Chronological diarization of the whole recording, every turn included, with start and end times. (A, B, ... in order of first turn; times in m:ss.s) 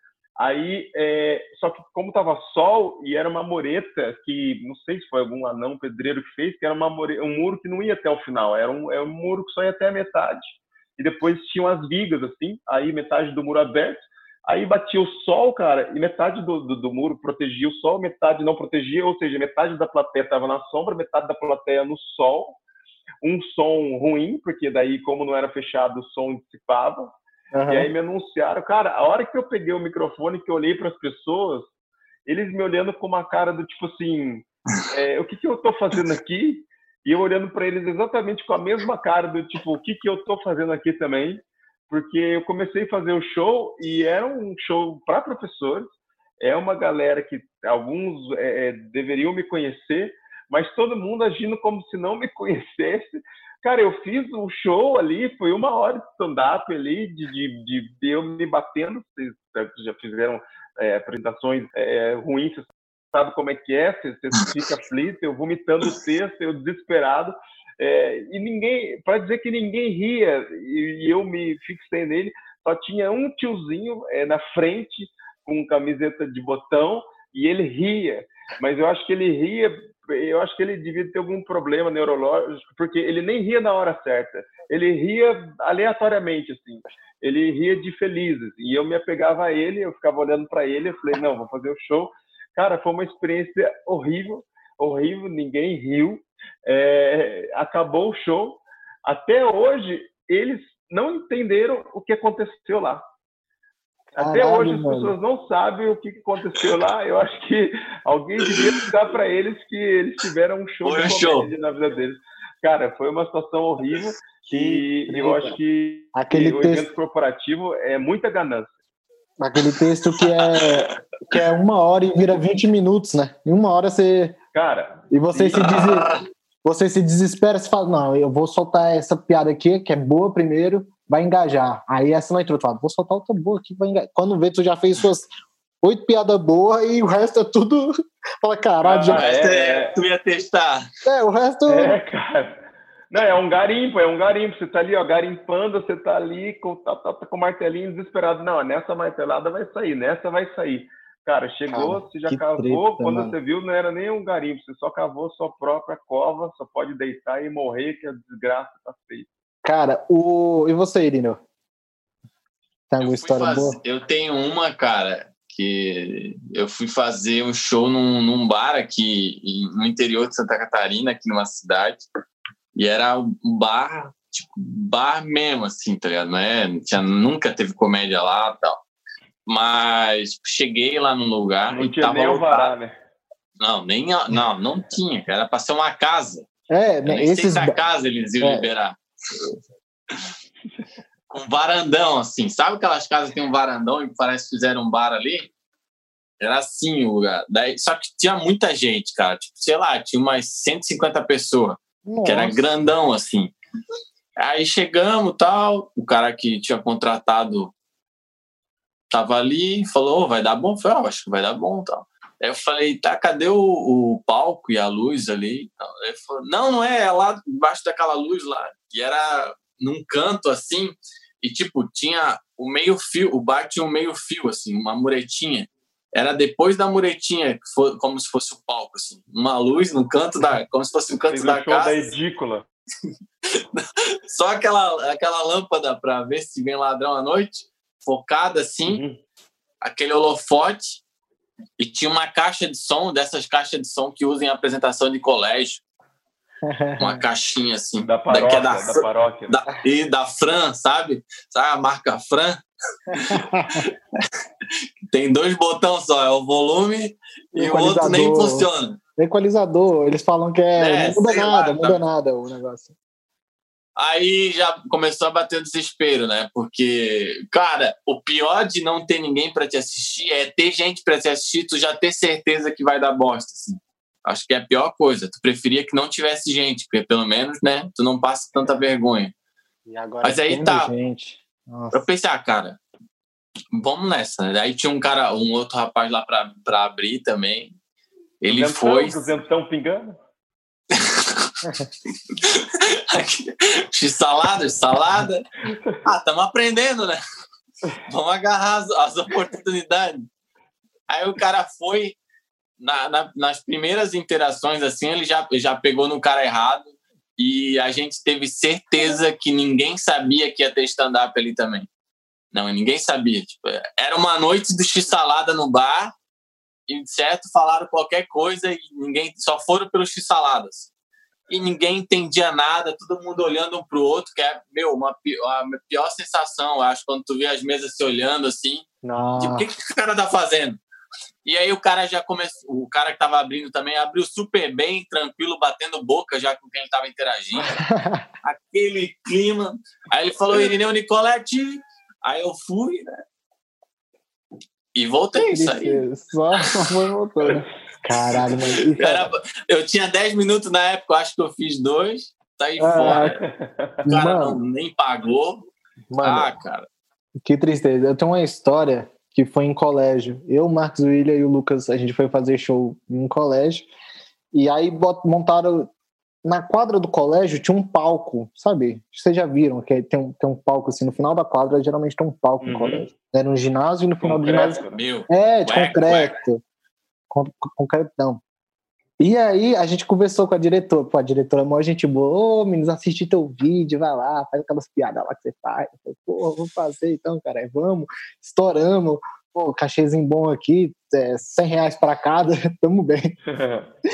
0:00.4-0:22.6 A
0:23.2-0:27.2 A
0:27.5-0:27.9 B
0:27.7-0:31.7 A
0:32.2-1:43.0 A
1:44.1-1:45.1 B
1:44.2-1:58.7 A
1:50.8-1:51.5 C
1:54.5-1:55.6 B
1:56.1-1:56.9 B
1:59.4-2:04.4 B
1:59.6-2:01.4 C
2:04.5-2:05.8 A
2:05.1-2:15.3 B
2:05.6-2:06.2 C
2:15.8-2:19.2 B
2:18.8-2:19.9 A
2:19.1-2:20.9 C
2:21.0-2:21.9 B
2:21.7-2:22.6 A
2:23.1-2:39.3 A
2:31.7-2:33.4 B
2:39.6-2:41.4 B
2:42.9-2:43.8 B
2:43.0-2:52.0 C
2:52.7-2:58.8 C
2:59.4-3:02.7 C
3:01.7-3:02.9 A
3:03.6-3:06.5 C
3:06.7-3:07.8 B
3:07.0-3:09.0 C
3:08.4-3:08.6 B
3:11.3-3:15.5 C
3:16.4-3:23.5 C
3:22.0-3:22.6 B
3:24.4-3:27.7 C
3:29.1-3:52.1 C
3:51.3-3:52.6 A
3:53.5-3:59.0 C
3:58.9-3:59.2 A
3:59.8-4:01.0 C
4:01.8-4:05.8 C
4:06.6-4:07.2 B
4:07.0-4:12.6 C
4:08.0-4:09.6 A
4:13.1-4:13.8 B
4:13.1-4:14.2 C
4:15.1-4:19.0 C
4:17.5-4:22.9 B
4:20.8-4:22.0 C
4:24.0-4:39.3 C
4:39.9-4:42.0 B
4:40.2-4:40.9 C
4:41.9-4:42.8 C
4:43.7-4:47.7 C
4:48.4-4:49.2 C
4:48.5-4:50.2 A
4:50.9-4:55.5 C
4:56.0-4:57.2 C
4:58.1-5:00.3 C
5:01.1-5:02.2 C
5:02.8-5:11.9 C
5:12.5-5:16.1 C
5:16.9-5:20.9 C
5:21.5-5:28.8 C
5:29.0-5:29.7 B
5:29.4-5:30.8 C
5:31.4-5:37.8 C
5:37.6-5:38.3 B
5:38.4-5:43.1 C
5:44.9-5:46.0 C
5:45.3-5:49.3 B
5:46.6-5:46.9 C
5:48.3-5:53.3 C
5:52.8-5:53.4 B
5:53.0-5:53.9 A
5:54.0-5:54.6 B
5:54.1-5:55.7 C
5:56.1-5:56.5 B
5:56.2-5:56.9 C
5:57.4-6:03.9 B
6:04.5-6:05.9 B
6:06.4-6:16.6 B
6:12.6-6:13.1 A
6:14.2-6:15.0 A
6:14.9-6:16.3 C
6:17.3-6:18.4 B
6:19.2-6:33.3 B
6:33.5-6:33.9 A